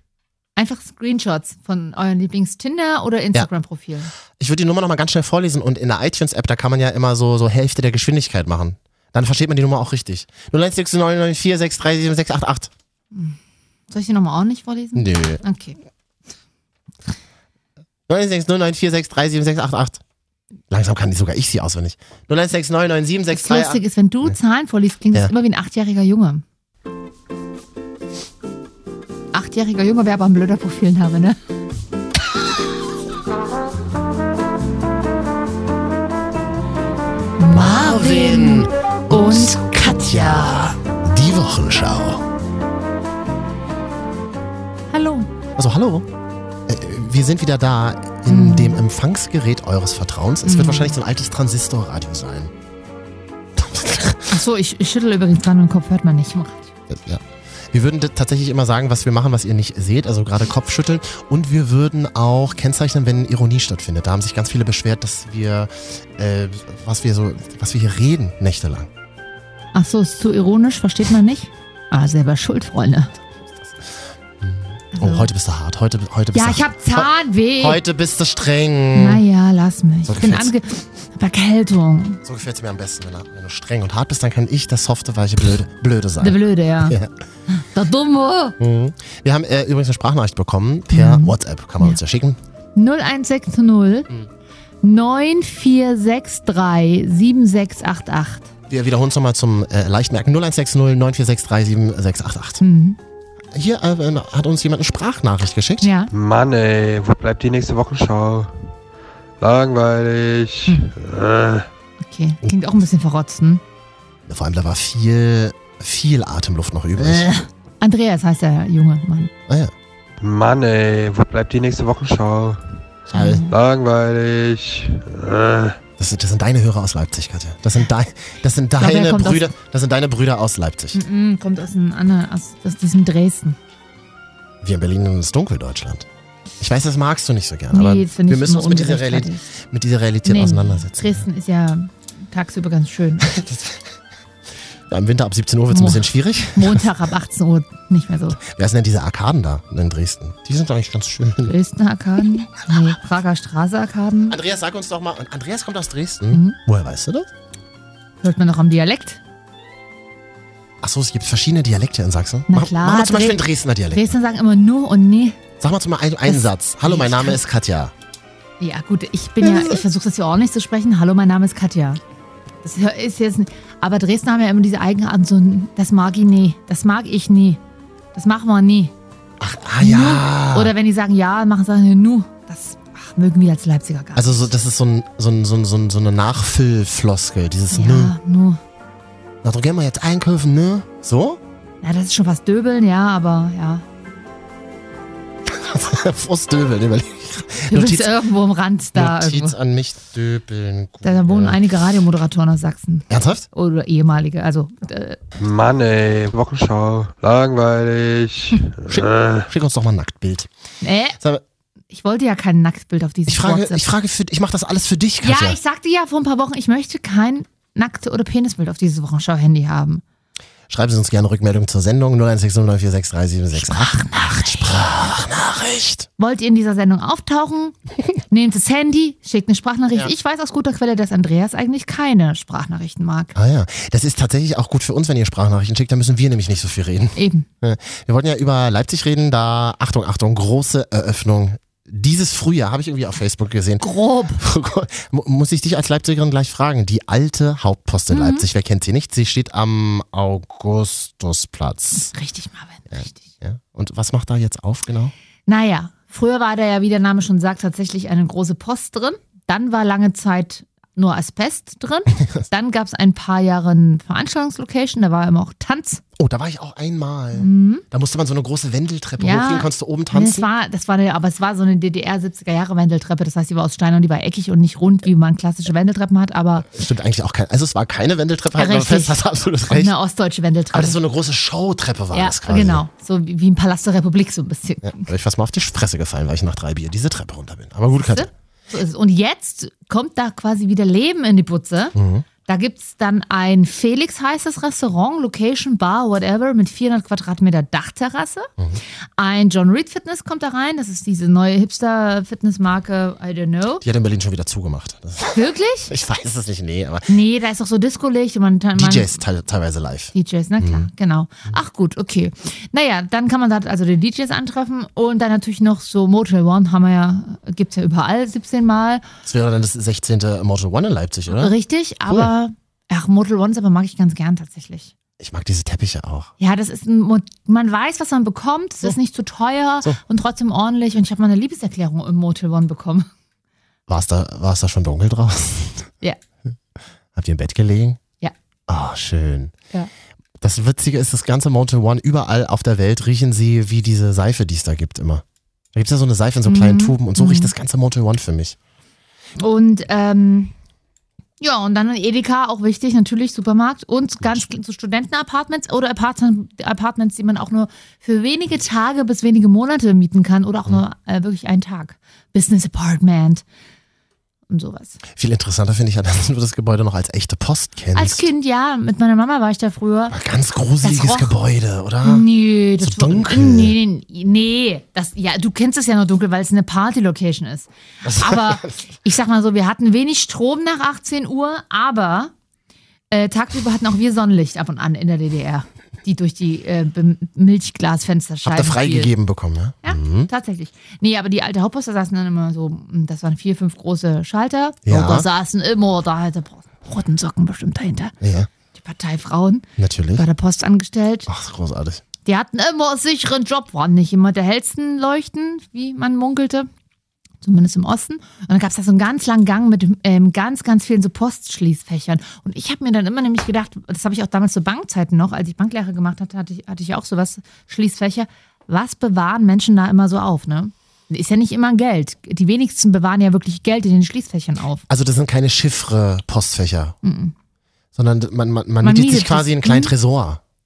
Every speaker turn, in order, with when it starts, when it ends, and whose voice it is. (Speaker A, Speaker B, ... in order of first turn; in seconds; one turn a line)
Speaker A: 0.6-4.1
Speaker B: 4.4-12.7
Speaker A: 13.1-13.4
Speaker A: 13.9-15.8
Speaker B: 15.0-15.4
Speaker B: 18.1-20.0
Speaker B: 20.7-24.4
Speaker A: 23.3-26.4
Speaker A: 29.3-31.4
Speaker A: 37.4-40.7
Speaker B: 37.5-42.2
Speaker A: 44.9-45.3
Speaker B: 45.6-46.1
Speaker B: 46.7-52.5
Speaker A: 48.3-48.9
Speaker A: 50.5-51.0
Speaker B: 53.6-54.4
Speaker A: 54.3-56.7
Speaker B: 56.9-68.9
Speaker A: 69.7-73.1
Speaker B: 73.2-79.2
Speaker A: 74.9-75.3
Speaker A: 76.3-77.8
Speaker A: 78.9-82.2
Speaker B: 80.1-80.5
Speaker B: 82.2-87.1
Speaker A: 86.2-87.0
Speaker A: 87.5-88.6
Speaker B: 88.6-92.4
Speaker A: 90.9-92.0
Speaker A: 92.8-94.1
Speaker A: 94.8-98.5
Speaker B: 98.7-102.6
Speaker A: 102.6-103.0
Speaker B: 103.5-105.9
Speaker A: 105.8-106.1
Speaker C: 106.1-108.5
Speaker C: 109.4-111.7
Speaker A: 112.0-113.6
Speaker B: 114.3-117.3
Speaker A: 117.0-119.3
Speaker B: 119.5-119.7
Speaker C: 120.2-122.6
Speaker B: 123.1-123.5
Speaker A: 123.1-123.5
Speaker C: 123.5-125.8
Speaker B: 126.0-131.0
Speaker A: 128.8-129.5
Speaker A: 130.9-133.6
Speaker B: 134.6-136.1
Speaker B: 136.6-141.2
Speaker A: 137.7-139.5
Speaker A: 140.2-143.3
Speaker B: 143.2-143.8
Speaker B: 144.9-146.9
Speaker A: 145.7-148.4
Speaker B: 148.4-151.6
Speaker A: 151.4-154.4
Speaker B: 154.3-157.3
Speaker A: 156.3-156.6
Speaker A: 158.2-159.2
Speaker B: 160.8-164.1
Speaker A: 162.5-165.4
Speaker B: 165.6-167.9
Speaker A: 166.3-167.4
Speaker A: 168.6-172.0
Speaker B: 169.4-169.8
Speaker A: 172.6-177.6
Speaker A: 178.1-178.9
Speaker B: 179.4-180.7
Speaker A: 179.8-184.5
Speaker B: 184.2-188.1
Speaker A: 187.7-188.6
Speaker B: 189.4-191.4
Speaker A: 191.8-193.8
Speaker B: 195.5-198.1
Speaker A: 197.7-199.5
Speaker B: 199.0-201.6
Speaker A: 201.0-205.2
Speaker B: 203.1-203.5
Speaker C: 205.4-209.5
Speaker B: 208.9-210.5
Speaker A: 210.8-211.2
Speaker B: 211.2-211.4
Speaker A: 211.9-213.8
Speaker B: 213.3-215.6
Speaker A: 215.2-220.0
Speaker B: 220.7-226.1
Speaker A: 223.6-224.8
Speaker A: 226.2-227.8
Speaker A: 228.3-233.3
Speaker B: 233.3-243.8
Speaker A: 237.2-237.5
Speaker A: 243.8-244.4
Speaker B: 244.4-252.1
Speaker A: 248.1-248.5
Speaker A: 252.0-253.2
Speaker B: 252.9-255.1
Speaker A: 255.5-266.0
Speaker B: 266.2-270.5
Speaker A: 267.4-267.8
Speaker A: 269.2-276.7
Speaker B: 276.7-279.9
Speaker A: 278.6-279.2
Speaker A: 279.7-281.0
Speaker B: 280.7-282.8
Speaker A: 282.1-285.1
Speaker B: 284.8-288.3
Speaker A: 288.1-298.5
Speaker B: 291.9-292.3
Speaker A: 299.2-303.8
Speaker B: 303.8-307.1
Speaker A: 305.3-305.9
Speaker A: 307.1-309.2
Speaker B: 308.8-310.9
Speaker A: 310.1-319.0
Speaker B: 319.2-321.5
Speaker A: 321.3-324.9
Speaker B: 325.2-326.3
Speaker A: 326.4-333.1
Speaker B: 333.9-335.9
Speaker B: 337.1-338.0
Speaker B: 338.7-339.5
Speaker B: 340.4-348.6
Speaker A: 346.5-347.5
Speaker A: 349.4-350.5
Speaker A: 351.4-363.4
Speaker A: 364.5-365.0
Speaker B: 365.2-368.2
Speaker A: 367.9-370.2
Speaker B: 370.1-373.8
Speaker A: 370.8-371.3
Speaker A: 372.0-382.3
Speaker B: 378.1-378.7
Speaker A: 383.1-389.1
Speaker B: 388.4-390.3
Speaker A: 389.8-398.1
Speaker B: 394.9-395.3
Speaker B: 398.2-398.5
Speaker A: 398.8-401.3
Speaker B: 399.8-400.2
Speaker B: 401.3-402.0
Speaker A: 402.2-406.7
Speaker A: 407.4-424.9
Speaker B: 424.9-427.0
Speaker A: 427.0-427.3
Speaker B: 427.9-430.4
Speaker A: 428.8-429.9